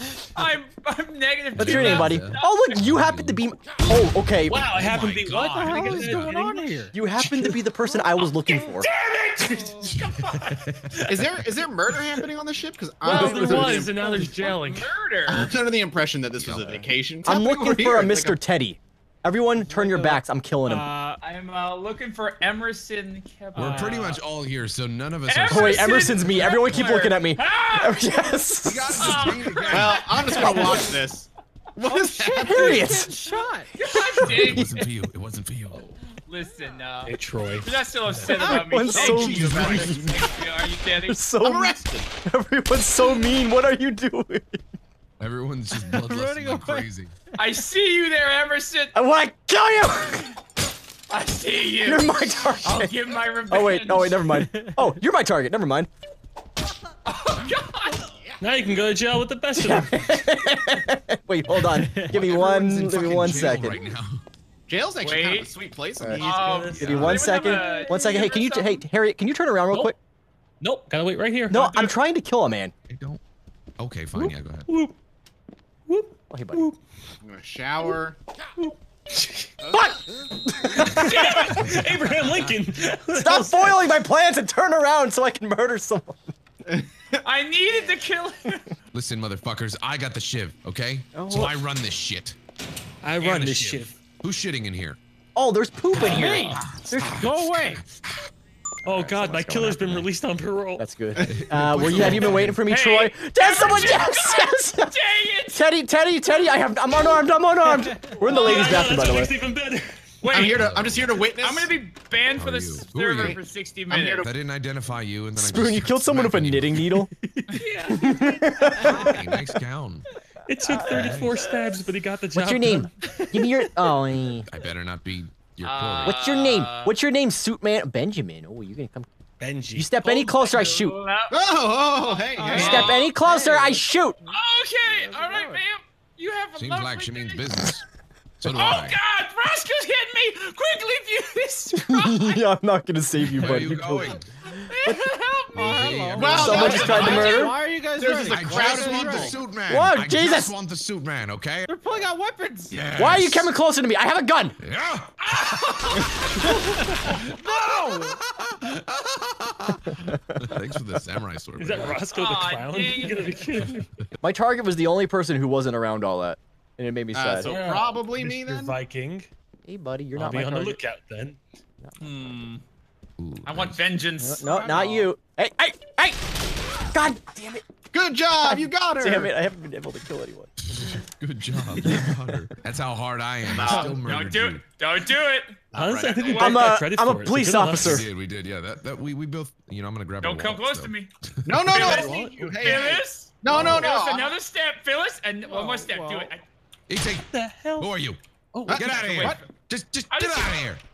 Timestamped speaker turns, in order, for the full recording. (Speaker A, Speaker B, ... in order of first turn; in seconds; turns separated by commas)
Speaker A: 0.3-2.8, Speaker B: 1.6-3.4, Speaker C: 1.6-4.7, Speaker D: 4.4-7.6, Speaker B: 4.5-6.4, Speaker E: 5.5-7.0, Speaker C: 6.9-8.9, Speaker D: 8.2-9.9, Speaker A: 9.4-10.7, Speaker B: 9.8-11.5, Speaker D: 10.9-11.2, Speaker F: 11.1-14.2, Speaker A: 13.0-13.6, Speaker D: 13.0-14.9, Speaker C: 13.2-13.8, Speaker A: 14.4-15.5, Speaker F: 15.2-18.4, Speaker B: 16.4-16.9, Speaker C: 17.2-20.9, Speaker E: 19.7-21.2, Speaker A: 21.2-24.2, Speaker B: 23.6-26.6, Speaker E: 23.6-24.0, Speaker A: 25.3-28.1, Speaker C: 25.5-29.4, Speaker B: 28.7-30.2, Speaker A: 29.0-30.7, Speaker F: 29.7-33.0, Speaker C: 30.2-30.9, Speaker E: 31.9-33.7, Speaker C: 32.4-33.1, Speaker A: 33.7-34.9, Speaker C: 33.9-34.7, Speaker B: 34.0-35.9, Speaker A: 36.2-41.2, Speaker D: 37.0-38.6, Speaker C: 38.3-40.2, Speaker F: 38.9-40.1, Speaker B: 38.9-40.2, Speaker C: 41.0-44.6, Speaker F: 41.4-42.1, Speaker B: 45.2-47.1, Speaker E: 45.9-46.9, Speaker A: 47.4-48.9, Speaker C: 48.9-50.3, Speaker A: 51.1-54.3, Speaker C: 51.8-52.9, Speaker C: 53.5-55.9, Speaker E: 54.4-54.9, Speaker A: 57.0-58.1, Speaker D: 58.4-60.1, Speaker C: 59.6-63.8, Speaker E: 61.7-62.1, Speaker B: 62.1-64.2, Speaker F: 64.7-67.2, Speaker A: 65.0-65.5, Speaker D: 66.2-67.8, Speaker A: 66.2-68.8, Speaker C: 66.9-70.0, Speaker E: 67.8-68.0, Speaker D: 70.6-71.9, Speaker C: 71.5-72.7, Speaker B: 72.9-73.2, Speaker B: 73.8-74.7, Speaker D: 74.2-74.9, Speaker D: 75.9-76.8, Speaker C: 76.3-76.7, Speaker F: 77.2-78.2, Speaker D: 78.6-79.5, Speaker F: 79.6-80.2, Speaker C: 79.7-81.6, Speaker D: 80.7-83.8, Speaker A: 81.0-81.5, Speaker B: 81.5-81.9, Speaker C: 83.1-86.3, Speaker F: 86.7-87.2, Speaker A: 87.2-88.7, Speaker B: 88.9-92.4, Speaker C: 91.1-91.5, Speaker D: 93.0-94.0, Speaker B: 93.2-95.0, Speaker C: 95.4-97.3, Speaker D: 96.0-96.4, Speaker E: 96.0-97.8, Speaker B: 96.6-98.3, Speaker C: 98.8-100.1, Speaker D: 98.8-100.9, Speaker C: 100.8-105.0, Speaker F: 101.2-101.5, Speaker B: 101.2-102.6, Speaker D: 102.0-102.5, Speaker A: 102.7-105.6, Speaker B: 103.6-104.0, Speaker C: 105.5-109.3, Speaker E: 107.8-108.2, Speaker D: 108.2-110.1, Speaker A: 108.3-109.2, Speaker A: 110.2-110.7, Speaker F: 110.3-111.7, Speaker B: 110.4-111.2, Speaker A: 111.3-114.3, Speaker B: 112.3-113.4, Speaker F: 113.1-114.3, Speaker B: 114.2-117.0, Speaker C: 115.3-117.1, Speaker A: 117.5-118.7, Speaker C: 117.9-119.2, Speaker E: 118.6-118.9, Speaker B: 118.8-120.1, Speaker D: 120.5-122.9, Speaker C: 120.7-121.2, Speaker B: 120.9-121.3, Speaker C: 122.3-124.5, Speaker E: 123.1-123.5, Speaker B: 124.5-126.2, Speaker A: 125.6-127.0, Speaker C: 126.0-129.1, Speaker D: 129.4-130.2, Speaker C: 129.7-131.0, Speaker A: 130.0-133.1, Speaker F: 131.3-133.0, Speaker E: 132.4-134.3, Speaker C: 132.5-134.2, Speaker A: 134.3-137.7, Speaker E: 134.9-135.6, Speaker B: 136.6-137.8, Speaker B: 138.4-139.0, Speaker A: 138.4-142.4, Speaker C: 141.8-145.0, Speaker B: 143.3-144.3, Speaker A: 144.7-146.0, Speaker E: 145.5-149.4, Speaker B: 145.6-147.4, Speaker F: 146.1-149.4, Speaker C: 146.3-147.6, Speaker A: 146.6-147.6, Speaker B: 148.2-151.7, Speaker C: 149.7-150.6, Speaker E: 151.7-152.8, Speaker B: 152.7-153.5, Speaker C: 153.0-154.6, Speaker B: 154.6-162.0, Speaker A: 155.2-156.4, Speaker E: 156.5-158.2, Speaker C: 160.1-160.5, Speaker D: 161.6-163.9, Speaker A: 162.1-163.4, Speaker C: 164.2-167.5, Speaker F: 167.1-168.8, Speaker D: 167.4-169.3, Speaker C: 169.7-170.8, Speaker D: 170.1-171.4, Speaker A: 172.0-172.6, Speaker B: 173.2-173.8, Speaker A: 173.4-175.1, Speaker C: 174.2-177.6, Speaker F: 177.9-179.3, Speaker C: 178.4-181.0, Speaker B: 180.7-184.6, Speaker C: 181.8-182.4, Speaker F: 183.5-184.0, Speaker A: 183.7-185.6, Speaker F: 185.7-186.7, Speaker D: 185.7-188.1, Speaker C: 186.4-188.1, Speaker B: 187.8-191.7, Speaker A: 190.2-191.1, Speaker F: 191.4-194.3, Speaker A: 191.7-196.4, Speaker D: 191.7-192.8, Speaker B: 193.5-193.9, Speaker D: 195.5-195.8, Speaker E: 195.8-196.3, Speaker B: 196.9-198.2, Speaker D: 197.3-197.9, Speaker D: 198.5-199.2, Speaker F: 198.7-199.4, Speaker B: 198.7-200.8, Speaker A: 198.9-199.5, Speaker A: 200.1-200.7